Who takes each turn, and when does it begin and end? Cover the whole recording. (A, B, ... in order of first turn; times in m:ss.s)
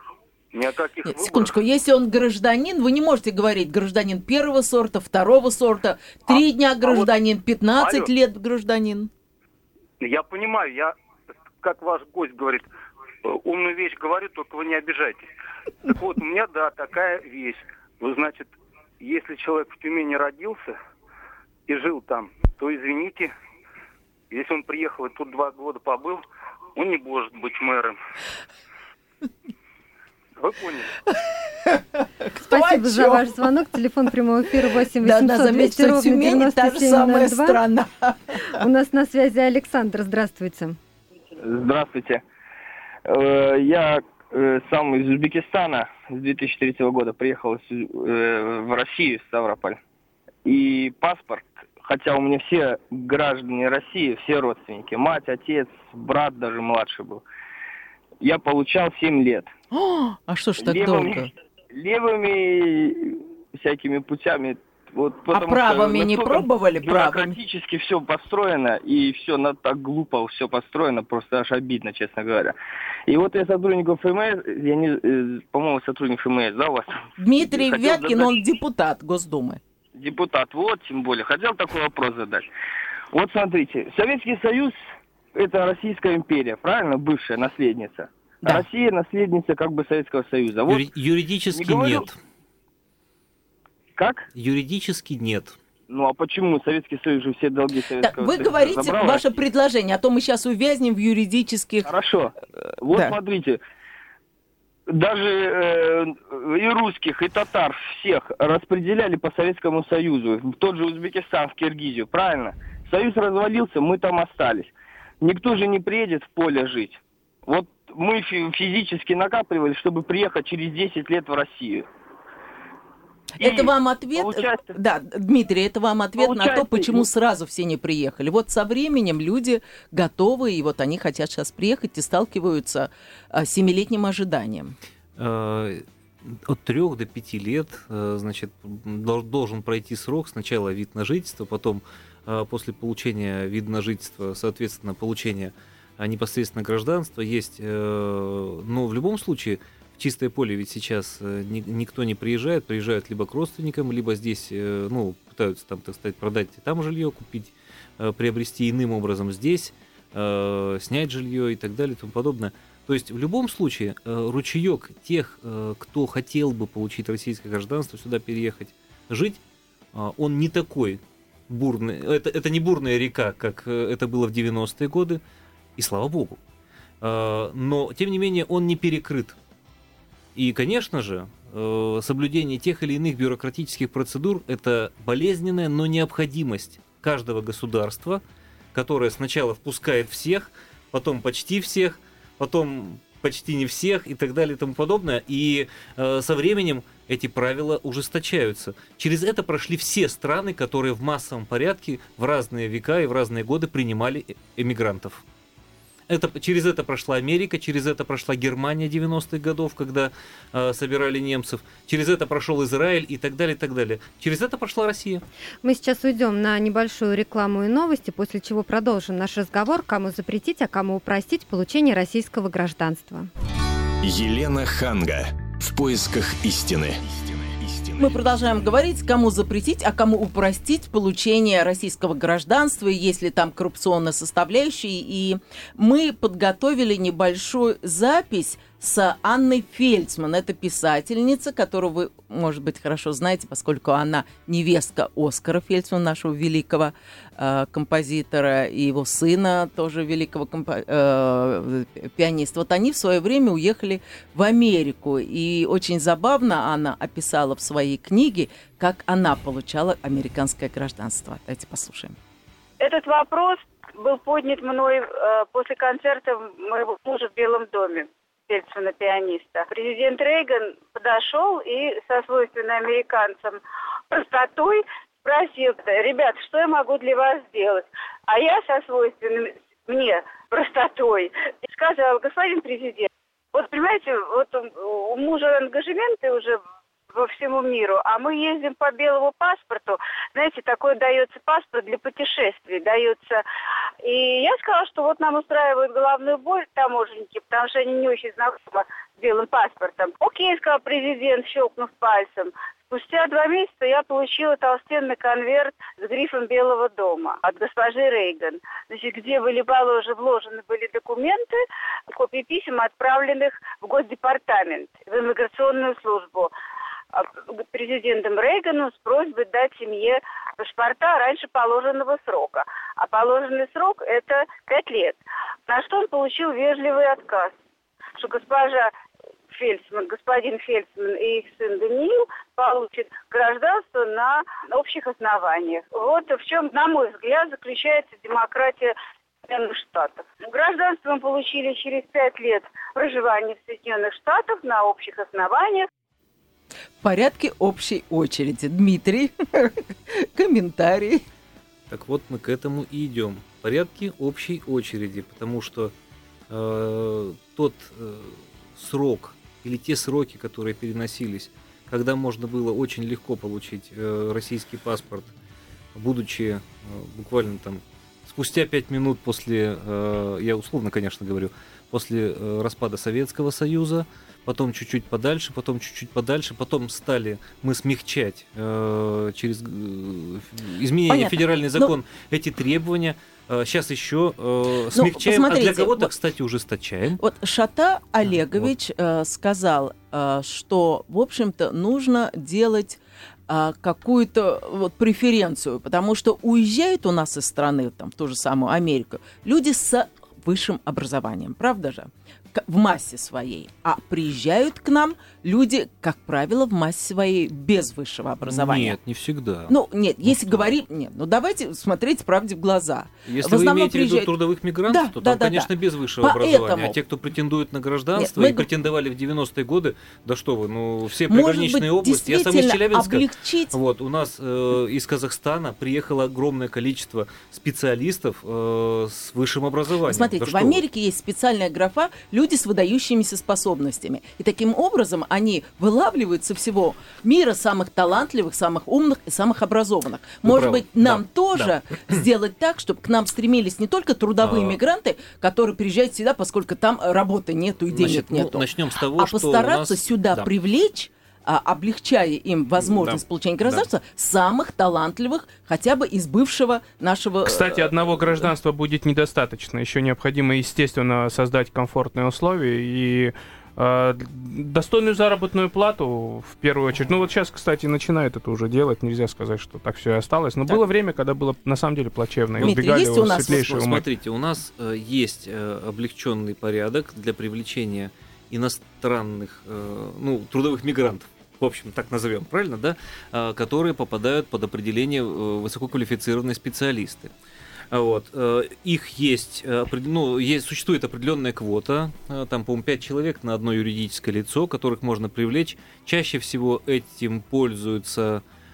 0:00.5-0:01.6 A
0:01.0-0:09.1 B
0:06.3-0:07.1 A
0:07.8-0:08.1 A
0:10.0-0:10.9 A
0:11.6-0:12.7 A
0:13.2-0:15.3 A
0:15.8-0:20.8 A
0:21.7-0:23.3 A
0:24.3-0:26.2 A
0:26.8-0:28.0 A
0:30.4-0:30.9 A
0:31.7-0:33.3 B
0:32.5-0:37.6 C
0:35.0-0:38.4 B
0:38.5-0:40.8 C
0:41.4-0:42.2 D
0:43.1-0:49.8 D
0:50.4-0:57.2 D
0:58.2-0:59.5 D
0:59.7-1:01.3 B
1:00.6-1:12.6 D
1:05.3-1:07.4 B
1:13.1-1:18.4 D
1:17.2-1:19.6 B
1:20.0-1:22.5 D
1:23.1-1:24.8 D
1:25.3-1:30.8 D
1:30.7-1:32.2 E
1:31.5-1:32.1 D
1:34.0-1:34.3 D
1:34.4-1:35.6 E
1:35.9-1:39.3 D
1:38.0-1:41.9 B
1:41.8-1:43.6 D
1:44.9-2:01.9 D
2:03.4-2:14.8 B
2:03.4-2:04.8 D
2:06.2-2:07.1 D
2:15.2-2:49.4 E
2:49.9-2:55.2 E
2:55.8-2:56.4 E
2:57.0-2:59.4 E
3:00.4-3:08.2 E
3:08.7-3:25.2 E
3:26.1-3:35.2 E
3:35.6-3:43.3 C
3:44.0-3:48.2 F
3:48.0-4:22.2 B
4:22.8-4:33.6 G
4:34.1-4:46.6 G
4:47.1-4:53.4 G
4:54.0-5:11.6 G
5:12.1-5:16.5 G
5:17.1-5:27.5 G
5:28.2-5:28.9 G
5:29.5-5:38.9 G
5:39.4-5:45.9 G
5:47.0-5:51.2 B
5:51.9-5:55.9 E
5:56.5-6:05.3 E
6:06.0-6:27.2 E
6:21.1-6:21.9 B
6:24.9-6:26.1 B
6:27.2-6:49.0 B
6:28.2-6:28.7 E
6:48.4-6:50.7 E
6:49.7-6:54.3 B
6:53.3-7:10.8 E
6:54.9-6:57.0 B
6:58.2-6:58.7 B
7:01.3-7:03.8 B
7:10.1-7:37.9 B
7:20.4-7:22.2 E
7:24.4-7:24.8 E
7:27.9-7:30.5 E
7:32.8-7:33.9 E
7:37.5-7:54.0 H
7:52.6-7:53.7 B
7:53.3-8:07.3 E
8:07.9-8:18.4 E